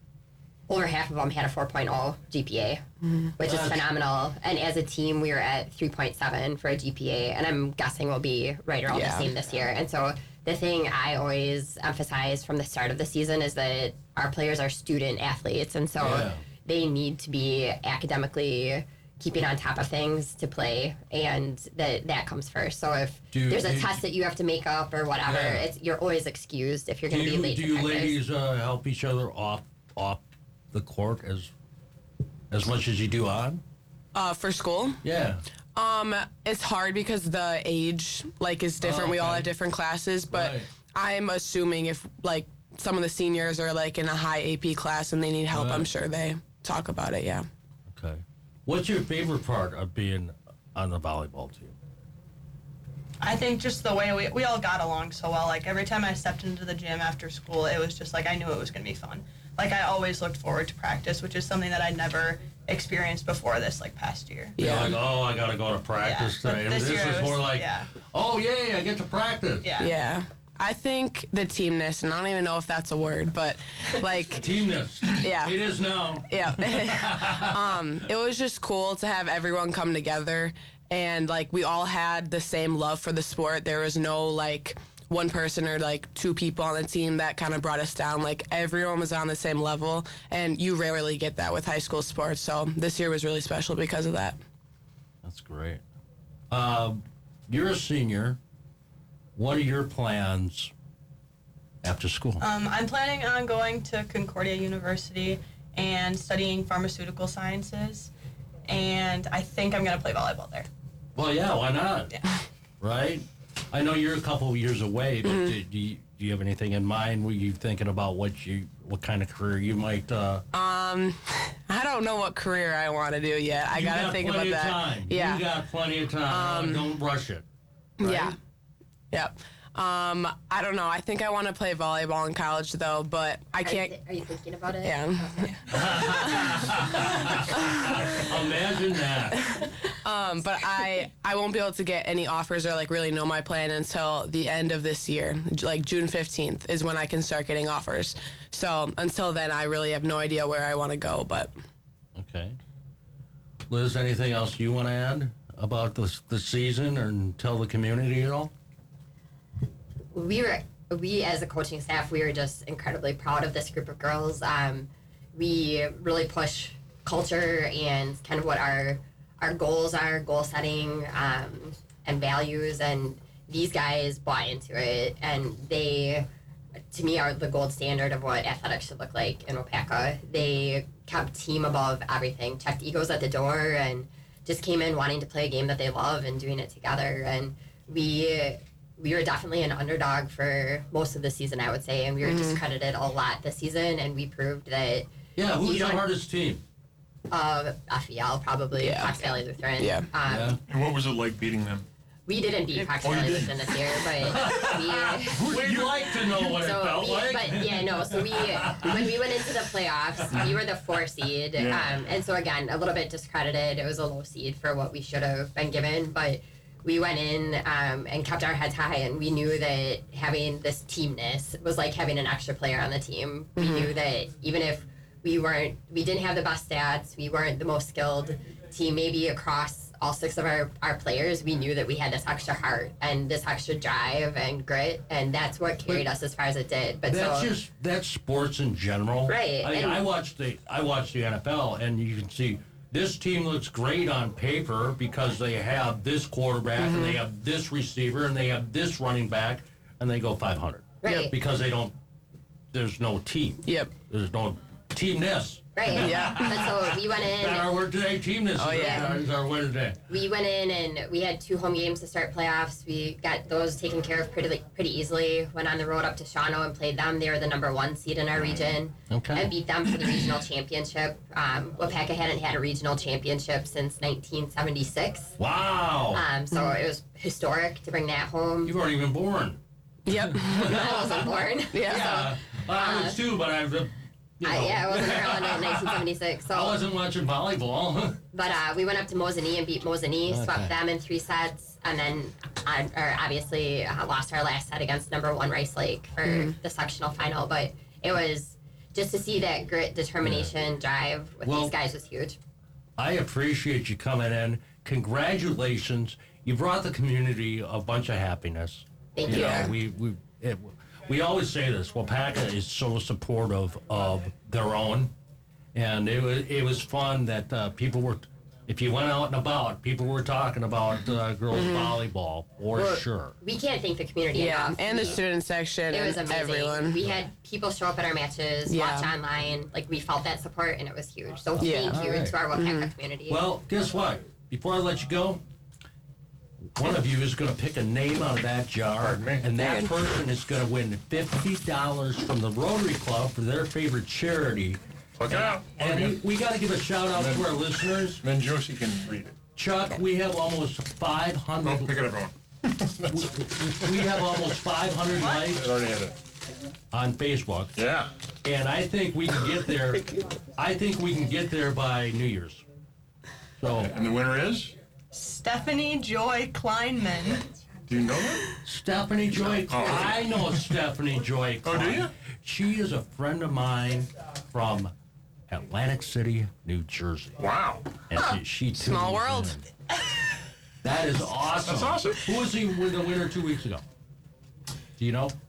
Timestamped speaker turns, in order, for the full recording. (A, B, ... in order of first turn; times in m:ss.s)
0:00.7-0:02.8 A
0:03.4-0:28.2 A
0:03.4-0:03.8 B
0:08.9-0:09.3 C
0:16.0-0:16.4 B
0:23.3-0:24.0 B
0:25.2-0:25.7 B
0:27.1-0:31.5 B
0:32.5-0:33.6 B
0:34.1-0:35.0 C
0:35.0-0:35.4 B
0:35.7-0:47.5 C
0:38.8-0:39.5 B
0:40.3-0:40.7 B
0:45.5-0:45.9 B
0:47.9-0:51.7 B
0:53.2-1:04.6 D
1:04.6-1:05.0 C
1:04.6-1:09.7 B
1:06.0-1:07.9 D
1:09.6-1:09.9 D
1:09.8-1:14.5 C
1:14.3-1:17.6 B
1:15.2-1:15.6 C
1:16.2-1:34.4 C
1:35.2-1:35.8 B
1:36.5-1:38.4 B
1:39.4-1:40.7 B
1:41.8-1:42.5 B
1:42.4-1:48.1 D
1:48.7-1:50.7 D
1:51.1-1:52.2 B
1:52.8-2:00.4 B
1:55.2-1:55.5 C
2:00.5-2:05.5 C
2:03.7-2:07.4 B
2:06.3-2:06.9 C
2:08.0-2:08.4 C
2:08.0-2:08.3 B
2:09.1-2:14.0 C
2:13.6-2:15.6 A
2:14.8-2:16.5 C
2:15.7-2:19.5 B
2:17.5-2:18.0 C
2:19.5-2:31.5 C
2:32.1-2:32.6 B
2:33.7-2:38.5 B
2:40.1-2:56.2 A
2:56.9-3:16.1 A
3:12.2-3:12.6 C
3:15.4-3:16.6 B
3:17.3-3:20.6 A
3:18.8-3:20.1 C
3:20.3-3:20.6 B
3:20.7-3:21.8 E
3:22.2-3:25.5 A
3:23.0-3:23.9 E
3:24.2-3:29.2 B
3:25.4-3:26.5 E
3:26.4-3:57.5 A
3:30.2-3:30.5 B
3:31.6-3:31.9 E
3:43.6-3:43.9 C
3:57.0-4:11.9 B
3:59.3-4:00.0 A
4:06.8-4:07.2 C
4:11.0-4:11.3 A
4:11.0-4:11.3 C
4:12.7-4:20.0 B
4:13.6-4:13.9 C
4:15.8-4:17.8 A
4:15.9-4:16.6 C
4:18.5-4:19.2 C
4:18.7-4:19.2 A
4:20.1-4:35.3 A
4:29.1-4:29.5 B
4:35.4-4:36.2 B
4:36.1-4:38.7 A
4:38.6-4:39.6 B
4:40.0-4:40.9 C
4:40.1-4:48.2 B
4:40.6-4:43.2 A
4:41.7-4:42.2 C
4:44.4-4:46.8 A
4:48.3-5:02.4 A
4:50.3-4:50.8 B
4:56.3-4:56.5 C
5:00.2-5:00.5 B
5:01.4-5:01.7 B
5:03.0-5:15.1 B
5:09.1-5:09.7 A
5:09.3-5:09.7 C
5:15.7-5:23.4 B
5:21.5-5:22.0 C
5:22.7-5:25.2 A
5:24.3-5:27.0 C
5:25.9-5:33.4 A
5:28.6-5:29.2 C
5:31.6-5:32.4 B
5:31.6-5:32.9 C
5:33.3-5:35.4 B
5:36.8-5:48.2 B
5:39.0-5:39.5 E
5:39.6-5:39.9 C
5:45.2-5:46.2 E
5:47.1-5:49.3 E
5:49.5-5:51.9 B
5:51.6-5:54.4 E
5:53.1-5:55.6 B
5:55.4-5:56.1 E
5:56.9-5:57.8 B
5:57.8-5:58.1 E
5:58.4-6:02.6 B
6:03.6-6:03.9 B
6:03.7-6:04.7 E
6:05.1-6:07.4 D
6:07.9-6:08.6 E
6:08.6-6:14.9 B
6:09.4-6:10.2 E
6:11.6-6:12.1 E
6:15.5-6:17.4 B
6:17.4-6:17.9 E
6:18.1-6:19.6 B
6:18.1-6:19.6 C
6:20.8-6:23.8 B
6:21.6-6:22.2 E
6:25.0-6:25.3 B